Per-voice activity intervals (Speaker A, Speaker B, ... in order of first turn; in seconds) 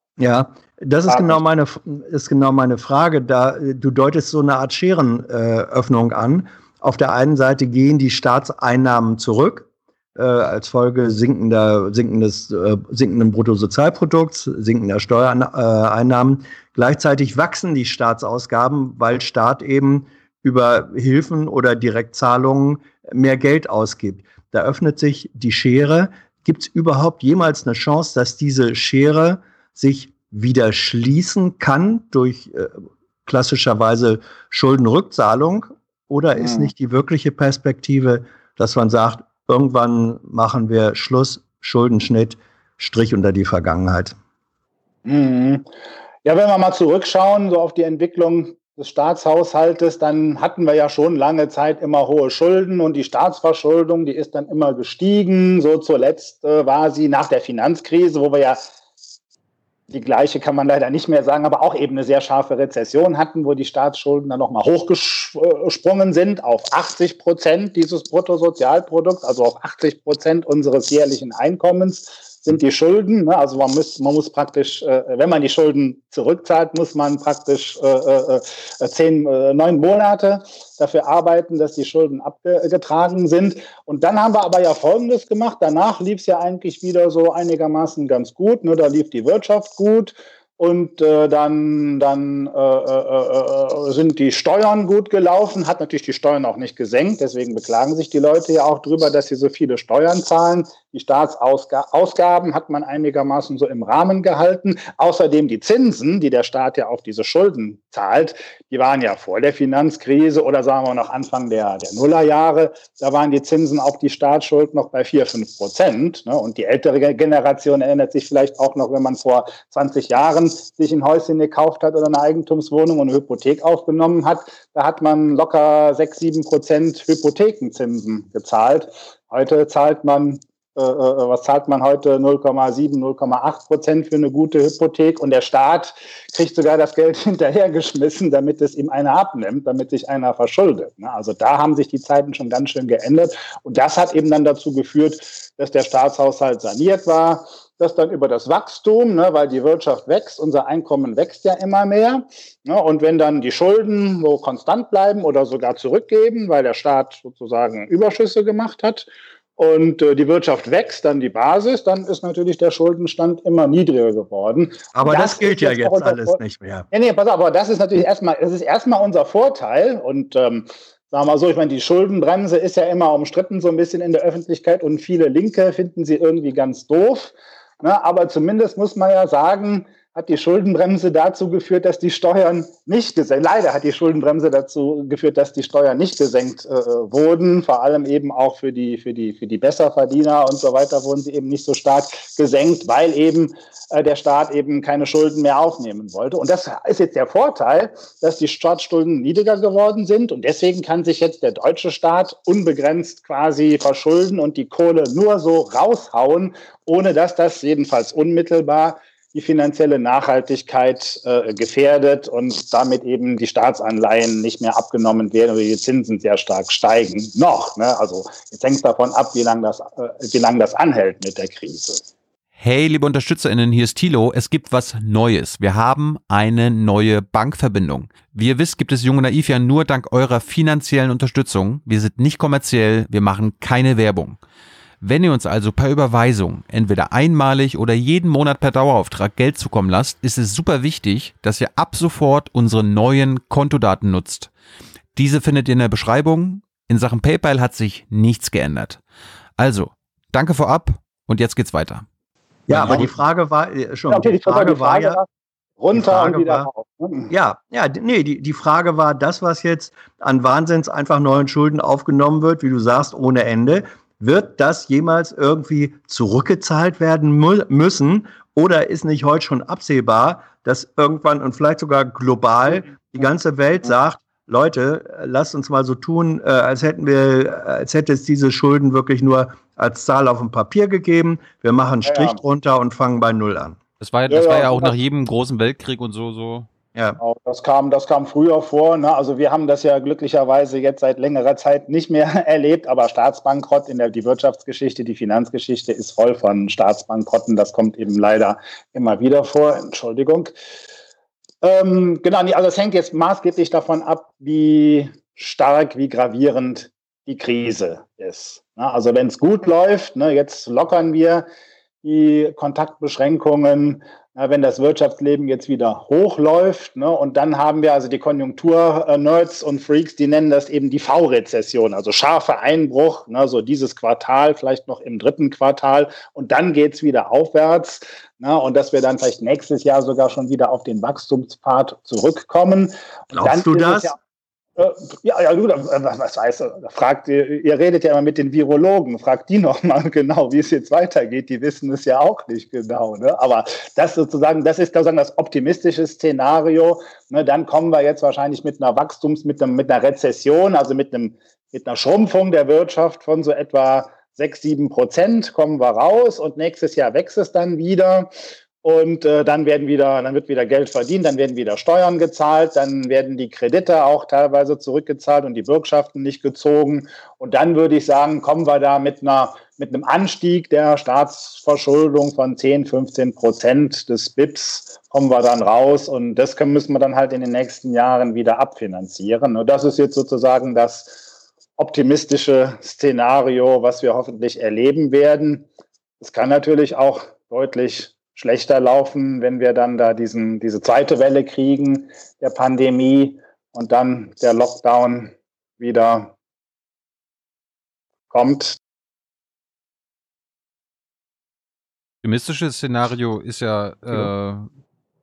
Speaker A: 0.2-44.1, 164.9-166.9, 252.7-255.2, 255.9-256.7, 257.3-283.8, 333.3-334.1
Speaker B: 1.1-1.4, 36.4-36.7, 45.0-45.6, 46.2-58.6, 59.9-166.4, 166.9-222.0, 254.1-255.3, 255.8-257.3, 282.0-282.4, 284.3-284.9, 287.2-300.5, 301.6-311.4, 312.0-334.2, 334.8-358.3, 358.8-381.2, 381.8-385.7, 386.2-396.3, 398.3-398.8
Speaker C: 222.6-234.4, 235.0-244.5, 245.1-249.0, 249.6-252.1, 252.7-253.0, 284.0-286.7, 402.2-404.7